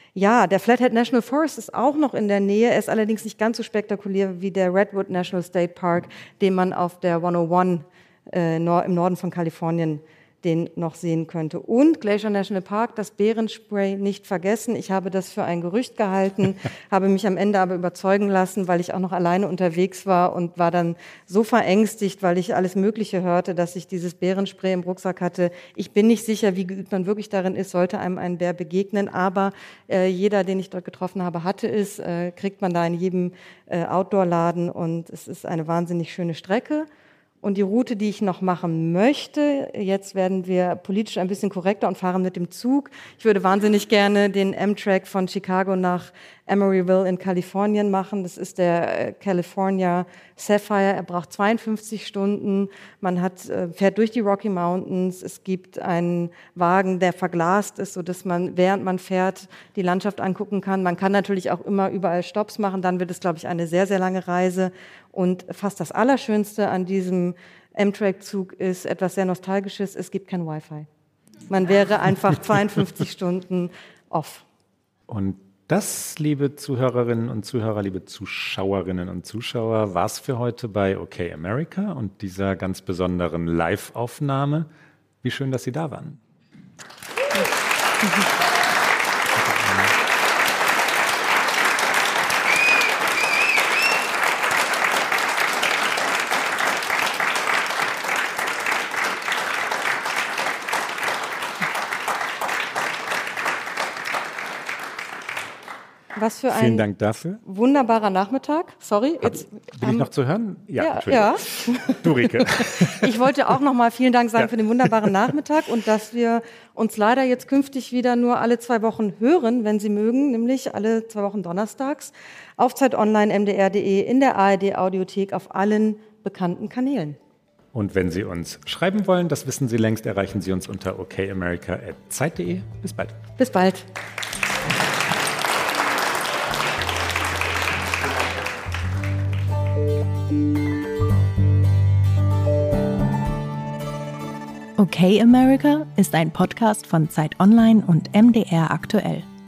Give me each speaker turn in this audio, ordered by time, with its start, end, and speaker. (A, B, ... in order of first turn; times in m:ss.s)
0:00.1-0:36.9 A
0:37.4-1:10.9 A
1:11.5-1:14.4 A
1:15.1-1:24.7 B
1:25.2-1:26.2 B
1:29.3-1:29.9 B
1:46.1-1:46.8 A
1:46.5-1:47.4 B
1:47.4-1:50.1 A
1:49.2-1:53.1 B
1:50.8-2:07.2 A
1:54.4-1:55.2 B
2:07.7-2:13.2 B
2:13.4-2:13.9 A
2:24.8-2:29.3 C